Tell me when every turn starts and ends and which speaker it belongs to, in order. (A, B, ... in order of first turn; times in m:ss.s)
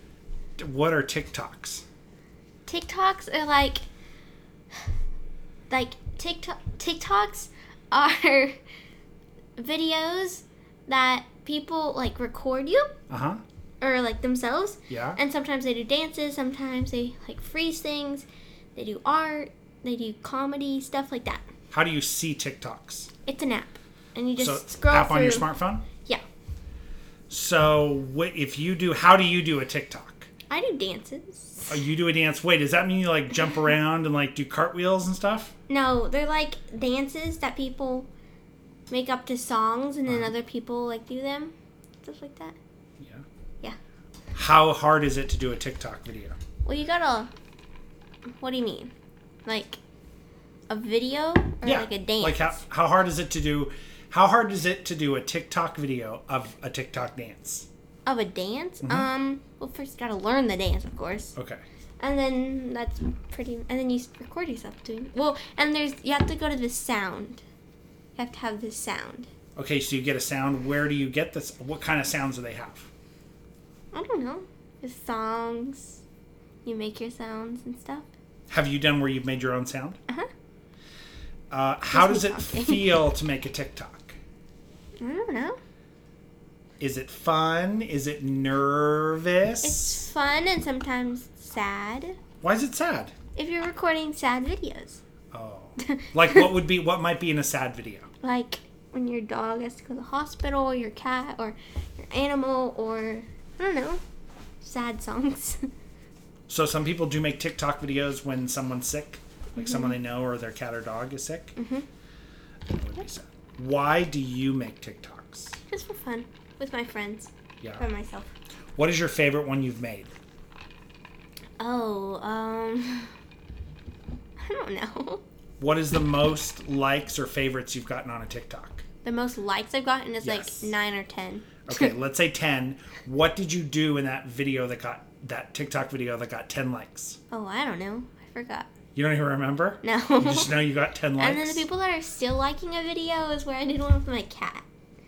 0:00.6-0:01.8 A
0:02.6-0:03.8 B
0:05.7-0:08.5 B
0:09.6-0:12.9 B
0:13.1-0:13.4 A
0:13.8-0:21.5 B
0:14.9-0:15.2 A
0:21.7-0:23.1 A
0:23.2-0:25.5 B
0:24.4-0:25.8 A
0:27.3-0:30.3 A
0:30.5-0:31.8 B
0:31.7-0:35.5 A
0:35.7-0:38.1 B
0:38.9-0:42.6 B
0:40.1-0:40.3 A
0:43.0-0:43.2 A
0:44.3-0:46.4 A
0:46.6-0:47.3 B
0:48.4-0:48.9 B
0:49.4-0:49.8 B
0:50.7-0:52.6 B
0:51.6-0:57.7 A
0:58.0-1:01.4 B
0:58.8-0:59.1 A
1:01.4-1:01.6 A
1:02.0-1:07.4 B
1:08.2-1:09.3 B
1:09.6-1:12.9 A
1:13.9-1:16.0 B
1:16.6-1:18.1 B
1:18.5-1:20.0 A
1:21.5-1:24.2 A
1:21.9-1:22.9 B
1:25.0-1:25.6 B
1:26.8-1:30.0 A
1:29.6-1:32.2 B
1:32.4-1:33.1 A
1:33.4-1:35.0 B
1:35.3-1:38.1 A
1:35.8-1:36.4 B
1:38.2-1:44.0 B
1:44.6-1:45.6 B
1:46.5-1:51.5 A
1:49.6-1:49.9 B
1:51.6-1:51.8 B
1:52.7-1:55.6 A
1:55.7-1:58.3 B
1:58.8-2:00.1 A
2:01.6-2:03.1 B
2:04.4-2:05.2 B
2:05.6-2:08.8 A
2:09.0-2:11.9 B
2:10.2-2:10.7 A
2:11.6-2:17.2 A
2:17.3-2:18.7 B
2:18.9-2:21.6 A
2:19.8-2:20.5 B
2:21.2-2:24.6 B